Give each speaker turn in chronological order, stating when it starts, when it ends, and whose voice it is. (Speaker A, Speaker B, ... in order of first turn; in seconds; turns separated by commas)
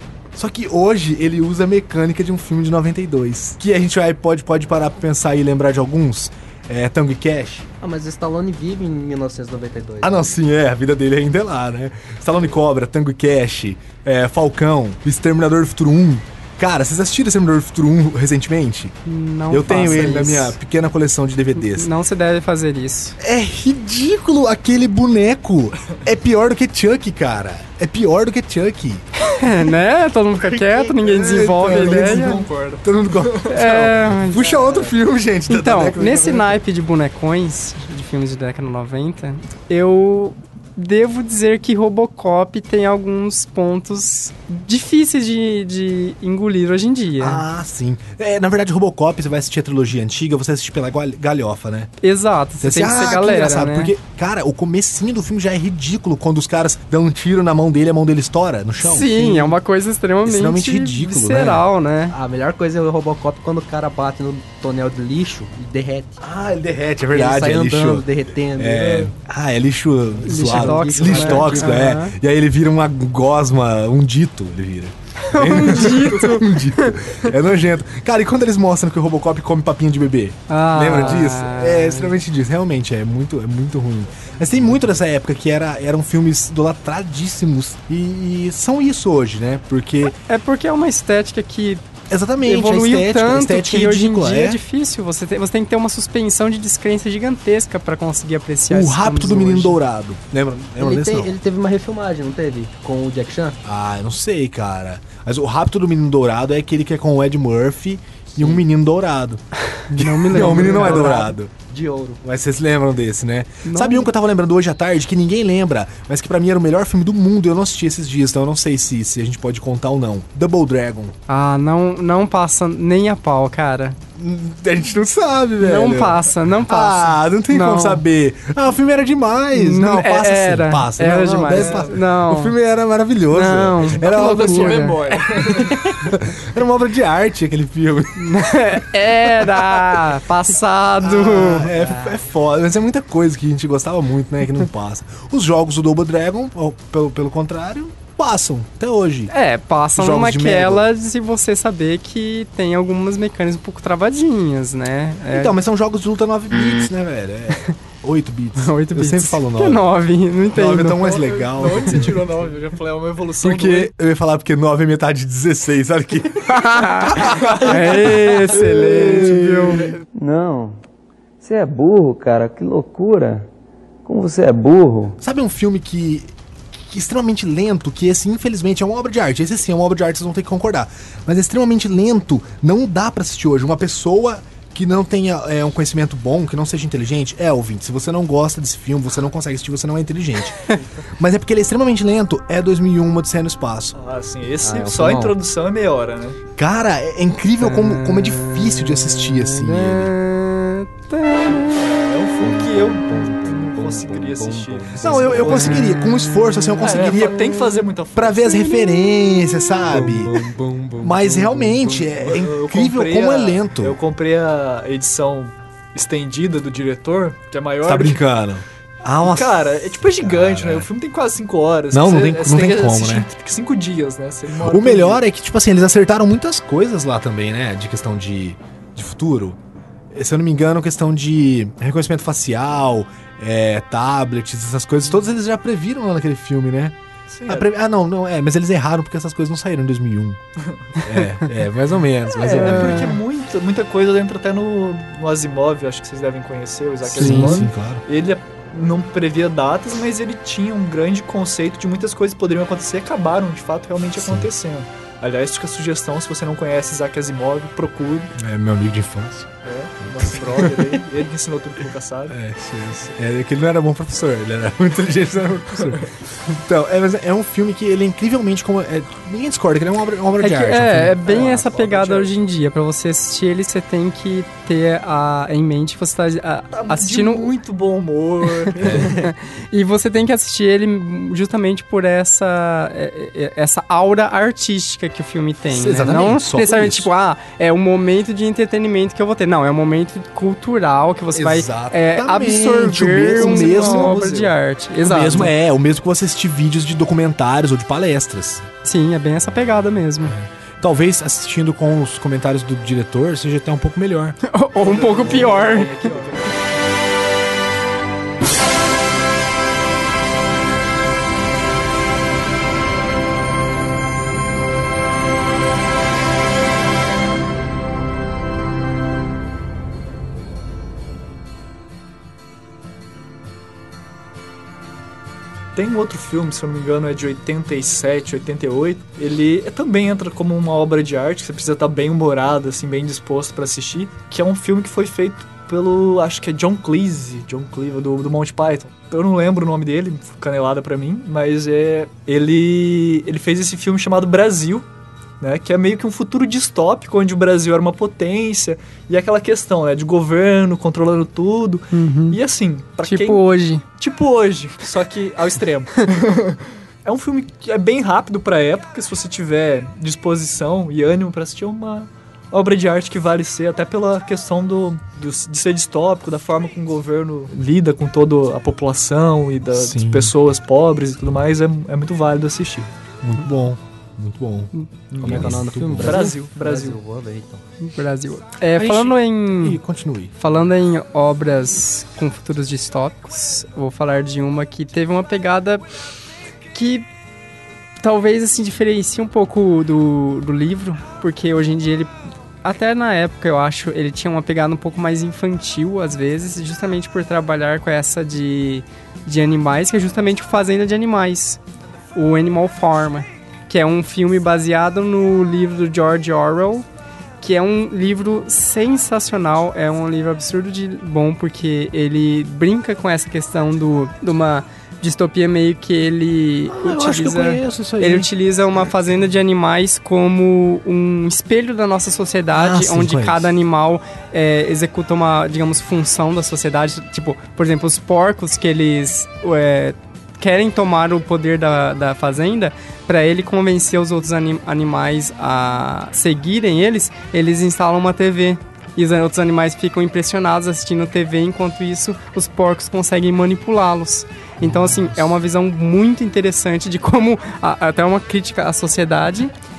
Speaker A: 0.3-7.7, Speaker B: 7.8-10.4, Speaker A: 10.0-19.0, Speaker C: 19.1-20.6, Speaker A: 19.5-21.9, Speaker C: 21.6-23.2, Speaker A: 23.2-29.1, Speaker C: 29.2-32.4, Speaker A: 30.7-36.6, Speaker D: 31.0-34.9, Speaker C: 33.5-34.5, Speaker C: 35.5-47.4, Speaker A: 47.2-51.9, Speaker C: 52.0-53.9, Speaker A: 52.6-59.6, Speaker C: 58.8-62.1, Speaker A: 60.2-61.7, Speaker B: 62.1-66.2, Speaker A: 66.2-90.2, Speaker B: 67.1-69.1, Speaker B: 70.2-71.8, Speaker C: 70.2-72.1, Speaker C: 75.2-77.3, Speaker C: 80.5-82.2, Speaker C: 90.2-91.8, Speaker A: 92.1-94.6, Speaker C: 92.4-99.8, Speaker A: 98.7-101.3, Speaker B: 100.8-103.6, Speaker A: 103.6-111.5, Speaker B: 108.4-108.7, Speaker C: 109.8-111.3, Speaker B: 110.4-112.2, Speaker A: 112.2-121.2, Speaker C: 113.6-114.1, Speaker C: 121.3-124.0, Speaker A: 124.2-140.2, Speaker C: 125.6-128.0, Speaker C: 129.6-132.6, Speaker D: 131.5-132.0, Speaker C: 133.3-135.0, Speaker D: 133.9-135.8, Speaker C: 138.2-141.7, Speaker A: 141.0-149.3, Speaker B: 141.7-142.2, Speaker C: 149.3-155.6, Speaker A: 149.9-150.8, Speaker A: 155.3-159.8, Speaker C: 158.6-161.2, Speaker A: 160.5-162.3, Speaker D: 161.0-163.9, Speaker A: 163.4-169.9, Speaker C: 166.4-169.9, Speaker D: 167.3-167.8, Speaker E: 170.2-170.8, Speaker E: 171.4-173.5, Speaker E: 174.0-175.2, Speaker A: 175.2-176.3, Speaker A: 176.9-194.0, Speaker D: 193.9-196.4, Speaker B: 194.6-195.4, Speaker A: 196.6-200.1, Speaker C: 197.6-201.8, Speaker D: 201.5-205.9, Speaker B: 202.4-205.8, Speaker A: 205.0-214.0, Speaker C: 205.7-206.6, Speaker D: 206.8-208.7, Speaker D: 209.9-218.2, Speaker A: 217.8-220.9, Speaker D: 219.2-225.2, Speaker A: 221.9-223.3, Speaker A: 224.6-229.6, Speaker A: 230.1-240.4, Speaker D: 237.3-237.7, Speaker A: 241.0-243.2, Speaker D: 242.4-258.3, Speaker C: 242.5-243.1, Speaker A: 247.0-248.0, Speaker C: 247.2-247.6, Speaker A: 254.2-254.5, Speaker A: 258.4-259.5, Speaker D: 259.6-262.4, Speaker A: 260.1-260.9, Speaker A: 262.3-271.4, Speaker C: 270.4-277.5, Speaker D: 271.2-272.3, Speaker D: 276.7-279.1, Speaker C: 278.7-295.5, Speaker A: 278.8-279.2, Speaker A: 285.7-287.1, Speaker A: 291.3-294.2, Speaker D: 293.3-294.5, Speaker A: 295.0-298.7, Speaker C: 298.9-300.4, Speaker A: 300.3-304.4, Speaker C: 304.5-306.1, Speaker D: 304.8-306.7, Speaker D: 325.8-344.9, Speaker D: 345.4-353.4, Speaker C: 351.9-352.4, Speaker C: 353.0-353.8, Speaker D: 354.0-372.9, Speaker A: 369.7-370.3, Speaker A: 373.2-376.3, Speaker D: 375.1-377.0, Speaker B: 375.2-377.6, Speaker C: 377.8-379.8, Speaker A: 378.7-380.3, Speaker C: 380.4-385.8, Speaker C: 386.7-387.1, Speaker C: 388.0-392.1, Speaker C: 392.6-401.6, Speaker C: 402.1-406.9, Speaker C: 407.4-449.5, Speaker A: 416.7-418.3, Speaker A: 422.5-423.5, Speaker A: 444.6-445.3